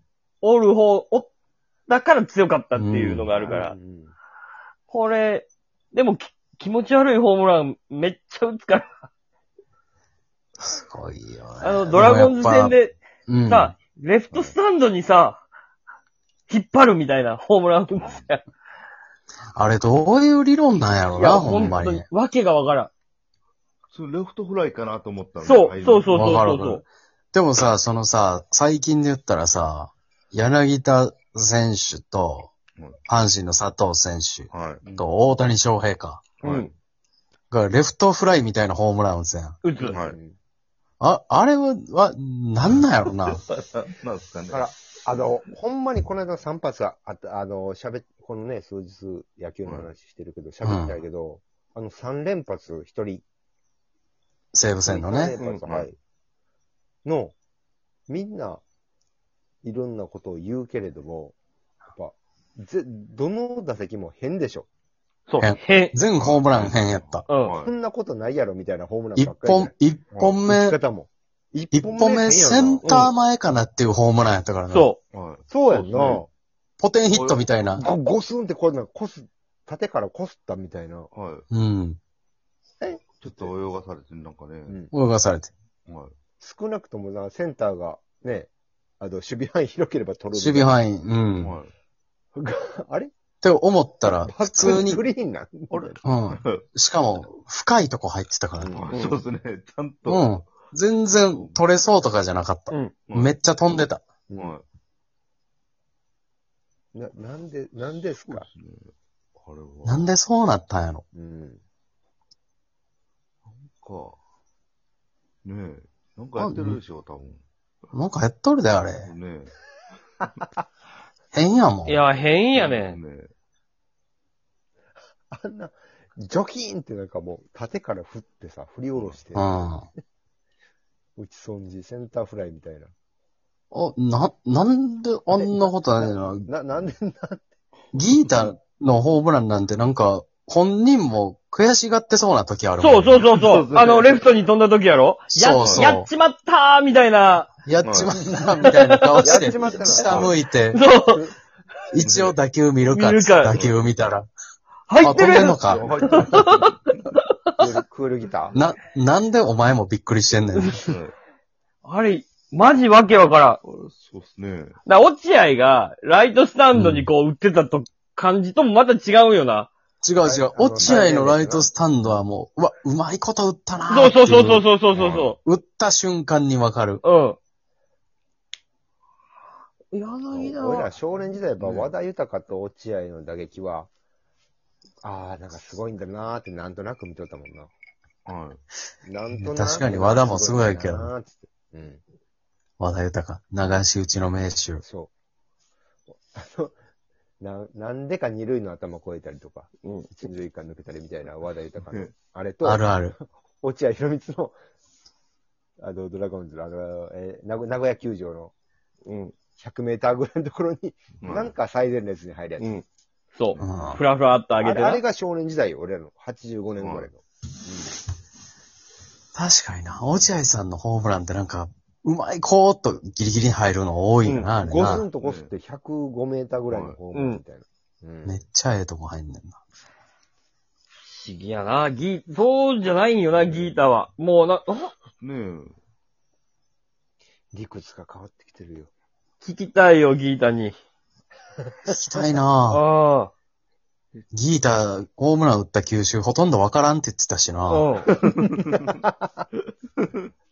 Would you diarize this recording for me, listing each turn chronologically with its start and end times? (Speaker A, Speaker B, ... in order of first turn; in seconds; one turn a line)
Speaker A: 0.4-1.3
Speaker A: 1.9-3.7
Speaker B: 2.7-3.3
Speaker C: 3.4-4.1
Speaker A: 4.9-9.0
Speaker B: 10.6-12.8
Speaker A: 11.6-12.9
Speaker B: 13.3-13.7
Speaker A: 13.5-15.4
Speaker A: 16.5-18.4
Speaker D: 17.9-18.3
Speaker B: 19.5-22.1
Speaker A: 21.1-22.9
Speaker D: 21.4-21.8
Speaker D: 23.9-26.3
Speaker A: 25.4-26.8
Speaker B: 26.1-32.5
Speaker B: 33.0-36.3
Speaker D: 34.5-35.1
Speaker D: 36.4-36.7
Speaker B: 37.5-39.6
Speaker A: 39.6-40.0
Speaker C: 39.8-40.3
Speaker B: 41.0-43.4
Speaker D: 43.5-44.7
Speaker C: 44.5-53.2
Speaker B: 50.6-51.0
Speaker B: 54.5-55.4
Speaker C: 54.9-56.0
Speaker C: 57.0-57.3
Speaker C: 58.1-58.6
Speaker C: 59.6-61.4
Speaker C: 61.9-64.7
Speaker A: 65.3-66.0
Speaker B: 65.4-67.3
Speaker D: 66.2-67.7
Speaker C: 67.6-73.1
Speaker B: 69.2-70.8
Speaker B: 71.7-74.9
Speaker A: 72.8-73.1
Speaker A: 74.7-75.0
Speaker D: 75.1-76.2
Speaker C: 75.5-76.3
Speaker B: 76.8-77.8
Speaker D: 77.1-77.5
Speaker C: 77.8-81.1
Speaker D: 81.1-81.4
Speaker B: 81.5-82.0
Speaker C: 82.8-83.5
Speaker D: 83.2-84.8
Speaker C: 84.7-84.9
Speaker B: 84.9-85.5
Speaker D: 85.9-86.1
Speaker C: 86.4-88.5
Speaker C: 89.0-90.7
Speaker B: 90.3-91.6
Speaker D: 91.4-91.7
Speaker C: 92.3-93.1
Speaker B: 93.4-95.0
Speaker C: 94.0-96.0
Speaker D: 95.7-96.6
Speaker B: 96.0-98.8
Speaker C: 98.6-98.9
Speaker D: 98.7-100.3
Speaker A: 98.9-99.2
Speaker B: 100.0-104.0
Speaker D: 101.3-101.6
Speaker A: 102.7-102.9
Speaker D: 103.1-103.3
Speaker C: 104.3-104.5
Speaker D: 104.4-104.6
Speaker C: 106.9-108.5
Speaker D: 108.3-110.1
Speaker B: 109.8-111.0
Speaker C: 111.1-111.6
Speaker D: 113.7-114.2
Speaker D: 115.4-117.4
Speaker B: 116.4-116.8
Speaker B: 117.9-119.1
Speaker D: 119.0-119.5
Speaker B: 121.3-122.0
Speaker A: 121.8-123.0
Speaker D: 122.5-123.3
Speaker C: 125.3-129.6
Speaker D: 128.9-129.2
Speaker B: 129.3-129.8
Speaker C: 131.2-132.9
Speaker B: 133.7-136.5
Speaker C: 135.3-137.5
Speaker B: 137.9-143.2
Speaker A: 142.8-147.5
Speaker D: 143.3-144.4
Speaker B: 145.3-146.1
Speaker D: 145.6-145.9
Speaker B: 147.7-150.8
Speaker D: 147.8-148.2
Speaker A: 148.6-149.5
Speaker C: 149.2-150.3
Speaker A: 150.7-151.2
Speaker B: 151.9-154.3
Speaker D: 152.0-152.4
Speaker A: 152.9-153.5
Speaker D: 153.5-153.9
Speaker A: 154.9-157.2
Speaker B: 154.9-156.0
Speaker D: 155.1-156.7
Speaker C: 155.6-156.7
Speaker C: 157.6-158.6
Speaker B: 158.5-160.9
Speaker D: 160.8-161.1
Speaker A: 161.8-163.6
Speaker D: 163.6-164.8
Speaker A: 164.8-169.7
Speaker B: 166.7-167.1
Speaker B: 170.0-174.7
Speaker C: 170.2-172.1
Speaker A: 173.9-175.3
Speaker D: 174.9-175.3
Speaker B: 175.4-177.0
Speaker A: 177.0-177.4
Speaker A: 179.9-180.9
Speaker C: 180.3-183.9
Speaker D: 181.6-181.9
Speaker C: 185.0-187.7
Speaker D: 188.2-188.6
Speaker C: 189.0-192.0
Speaker B: 189.3-191.1
Speaker B: 192.8-194.8
Speaker C: 194.8-195.1
Speaker C: 196.3-196.7
Speaker C: 197.4-204.6
Speaker B: 202.6-203.2
Speaker C: 205.8-208.5
Speaker A: 209.1-209.3
Speaker C: 209.6-212.7
Speaker D: 211.2-211.5
Speaker A: 212.6-215.0
Speaker D: 213.5-214.0
Speaker B: 213.6-214.0
Speaker C: 214.6-217.9
Speaker D: 216.8-217.1
Speaker B: 219.3-225.1
Speaker C: 224.6-228.4
Speaker D: 225.2-225.5
Speaker D: 226.7-227.0
Speaker A: 227.1-227.4
Speaker B: 228.2-229.6
Speaker A: 231.1-234.9
Speaker D: 235.2-235.8
Speaker C: 237.5-238.9
Speaker A: 239.4-240.8
Speaker B: 241.9-242.8
Speaker A: 242.7-243.3
Speaker B: 244.3-247.9
Speaker A: 247.7-248.1
Speaker D: 248.2-248.8
Speaker D: 250.0-250.2